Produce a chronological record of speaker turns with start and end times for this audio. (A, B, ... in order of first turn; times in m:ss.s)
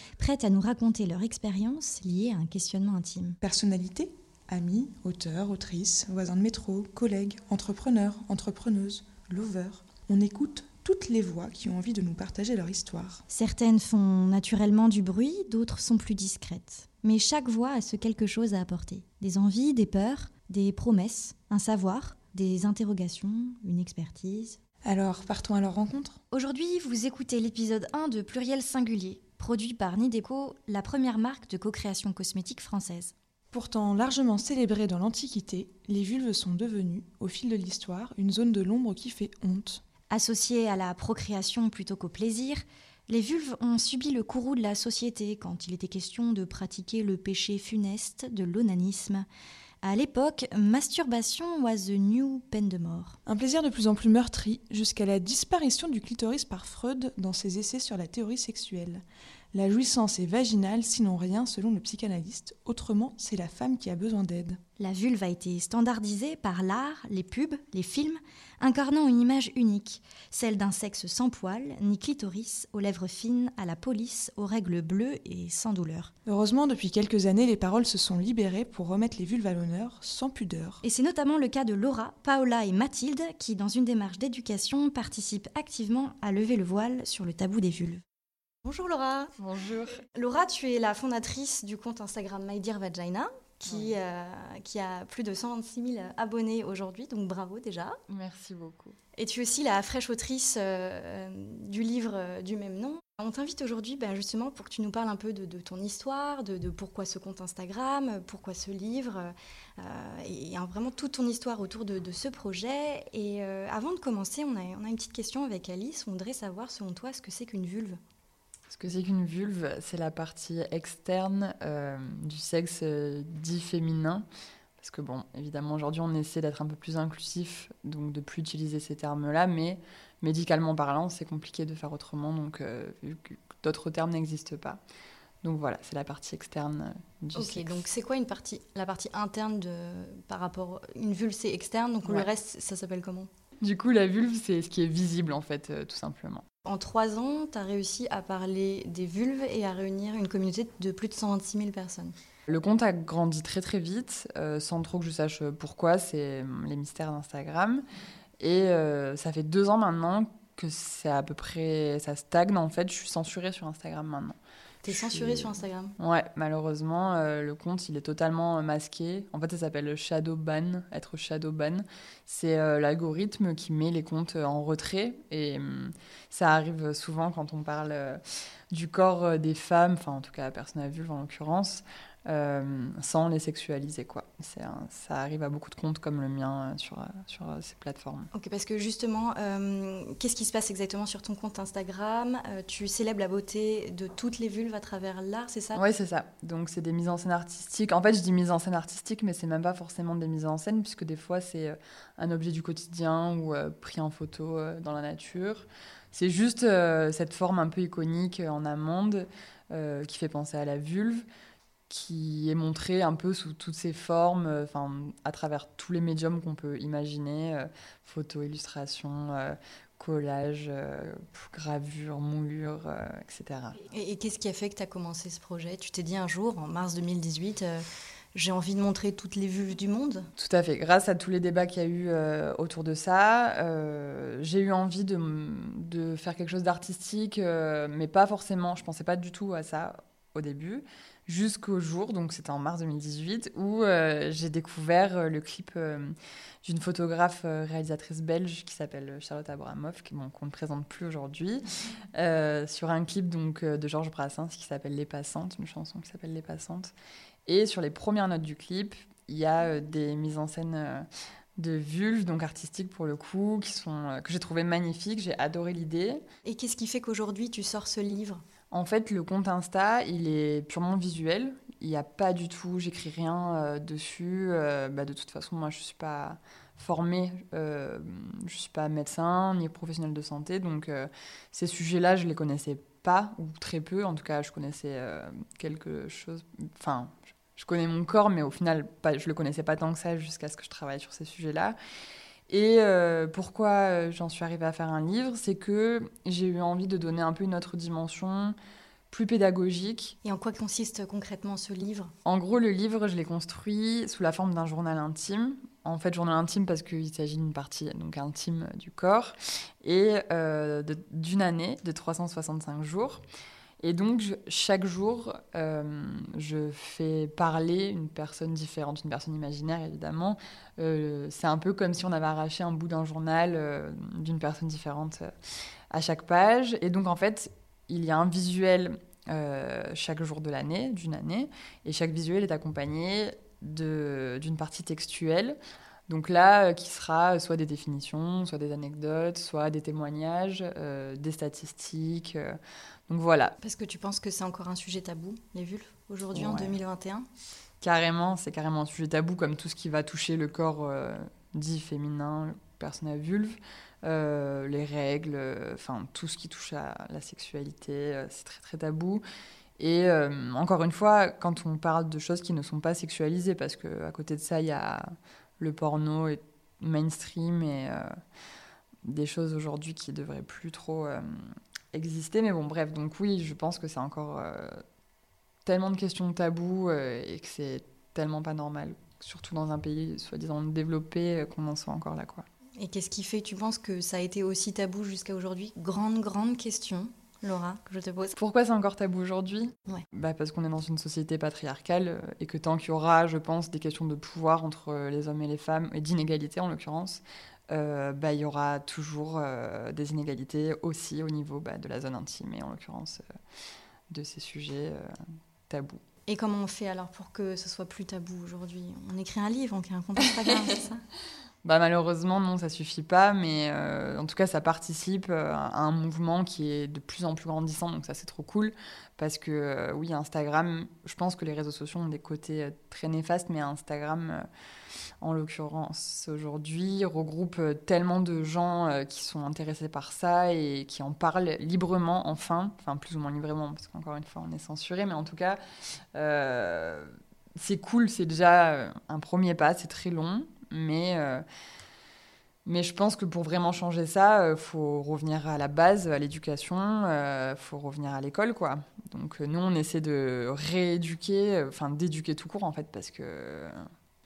0:00.2-0:03.4 A
0:03.4-0:13.2 B
0:13.3-0:24.6 A
0:24.8-0:26.2 B
0:26.3-0:33.1 A
0:33.5-0:39.8 B
0:40.1-0:49.3 A
0:49.8-0:53.2 A
0:53.3-0:59.0 B
0:59.5-1:04.6 B
1:04.8-1:16.1 A
1:16.3-1:20.8 B
1:20.8-1:28.0 A
1:28.6-1:29.3 A
1:29.4-1:30.0 C
1:30.0-1:38.0 A
1:33.7-1:34.0 C
1:38.1-1:39.0 C
1:39.1-1:58.0 A
1:58.7-2:04.2 C
2:04.8-2:14.8 C
2:15.4-2:17.8 C
2:17.3-2:23.3 A
2:23.6-2:26.4 C
2:26.6-2:32.1 A
2:32.5-2:37.8 C
2:38.4-2:44.4 C
2:44.8-2:45.9 A
2:44.9-2:58.2 C
2:58.7-3:08.3 C
3:08.3-3:15.8 A
3:15.7-3:31.2 C
3:31.9-3:43.8 C
3:43.8-3:50.3 A
3:50.4-4:16.9 C
4:17.4-4:21.1 C
4:21.6-4:26.2 C
4:26.4-4:28.4 A
4:28.7-4:51.8 C
4:52.5-4:58.6 C
4:59.1-5:00.1 C
5:00.2-5:02.1 A
5:02.2-5:13.2 C
5:13.8-5:25.3 C
5:25.9-5:43.6 C
5:43.6-5:47.3 A
5:46.3-5:46.8 C
5:47.8-5:59.2 C
5:59.8-6:08.1 C
6:09.0-6:14.8 C
6:15.6-6:22.4 C
6:22.8-6:28.3 A
6:28.4-6:43.2 C
6:44.1-6:45.1 C
6:45.7-6:46.0 C
6:46.3-6:51.0 A
6:51.6-7:04.4 C
7:05.2-7:15.6 C
7:16.1-7:21.4 C
7:22.6-7:33.8 C